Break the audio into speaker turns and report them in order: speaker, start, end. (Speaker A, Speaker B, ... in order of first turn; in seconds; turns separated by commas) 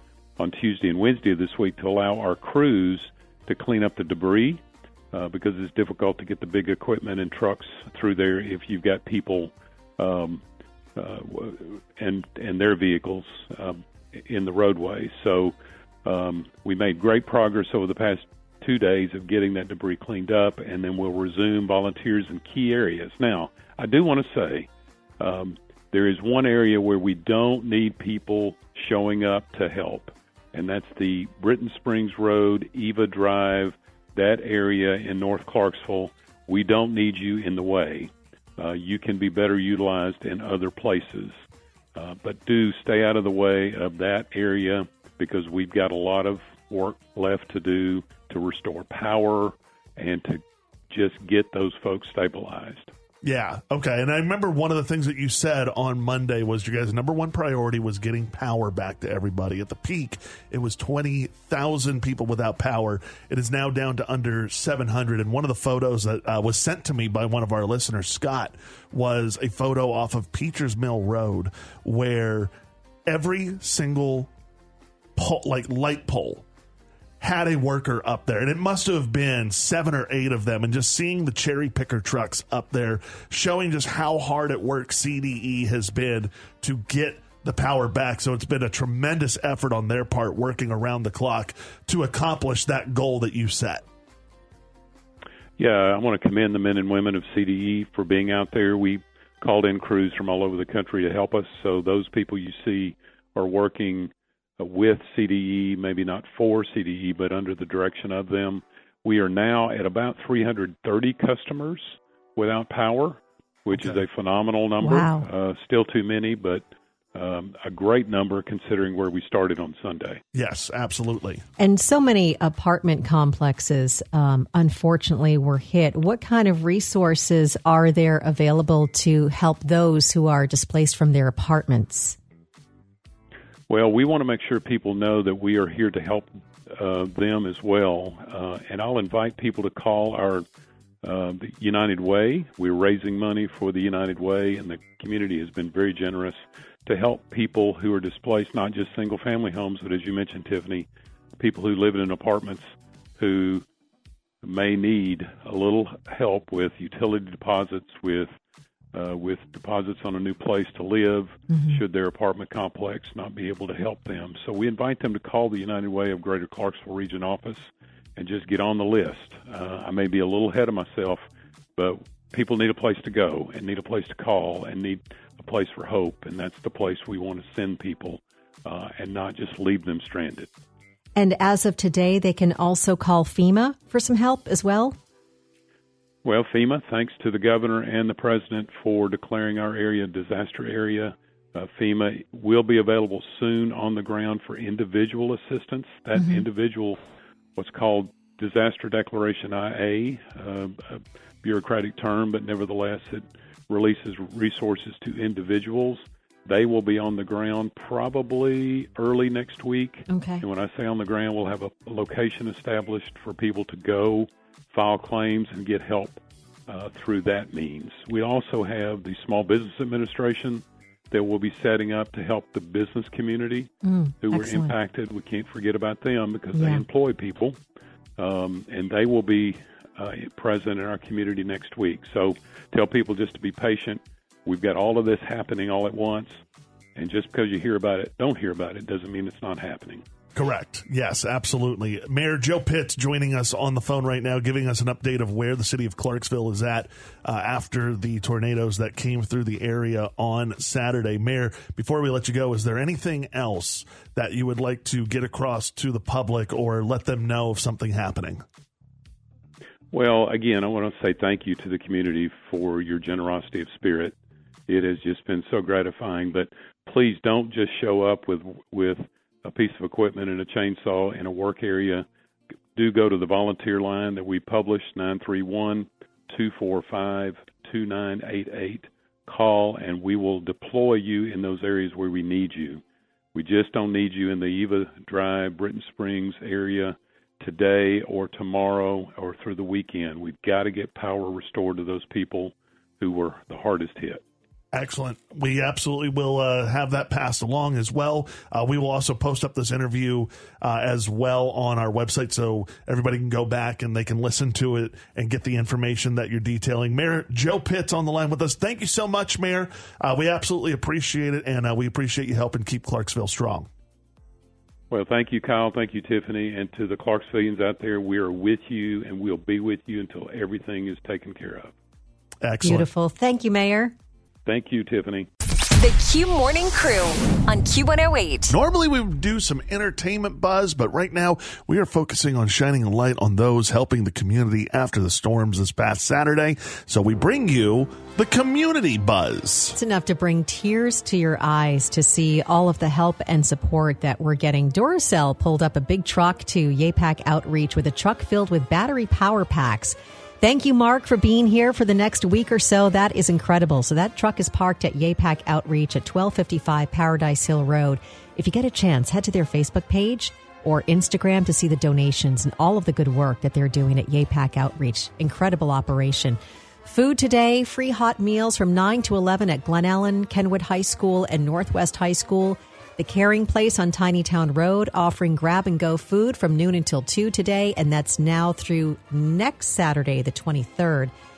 Speaker A: 0.4-10.4, Speaker A: 10.9-24.7, Speaker A: 25.2-41.4, Speaker A: 41.9-52.9, Speaker B: 53.2-72.5, Speaker B: 73.0-74.3, Speaker B: 75.2-76.4, Speaker B: 77.2-93.8, Speaker A: 95.6-120.2, Speaker B: 113.7-114.0, Speaker C: 114.8-115.2, Speaker B: 120.3-121.4, Speaker C: 121.6-132.2, Speaker A: 133.7-140.4, Speaker A: 141.0-150.9, Speaker A: 151.4-152.7, Speaker A: 153.2-153.6, Speaker A: 154.4-158.3, Speaker A: 158.9-171.2, Speaker C: 161.5-161.8, Speaker A: 171.8-180.5, Speaker C: 181.2-184.9, Speaker A: 186.2-197.0, Speaker A: 197.6-227.6, Speaker C: 210.1-210.4, Speaker C: 223.8-224.7, Speaker C: 226.5-226.8, Speaker A: 228.2-236.4, Speaker A: 236.9-240.0, Speaker B: 240.3-258.4, Speaker A: 259.9-264.1, Speaker A: 264.7-272.1, Speaker A: 272.7-282.8, Speaker A: 283.3-294.2, Speaker B: 294.7-313.7, Speaker A: 314.9-321.7, Speaker B: 322.4-322.9, Speaker C: 322.6-323.9, Speaker A: 324.4-325.3, Speaker D: 325.8-328.6, Speaker B: 328.5-339.8, Speaker C: 339.7-381.1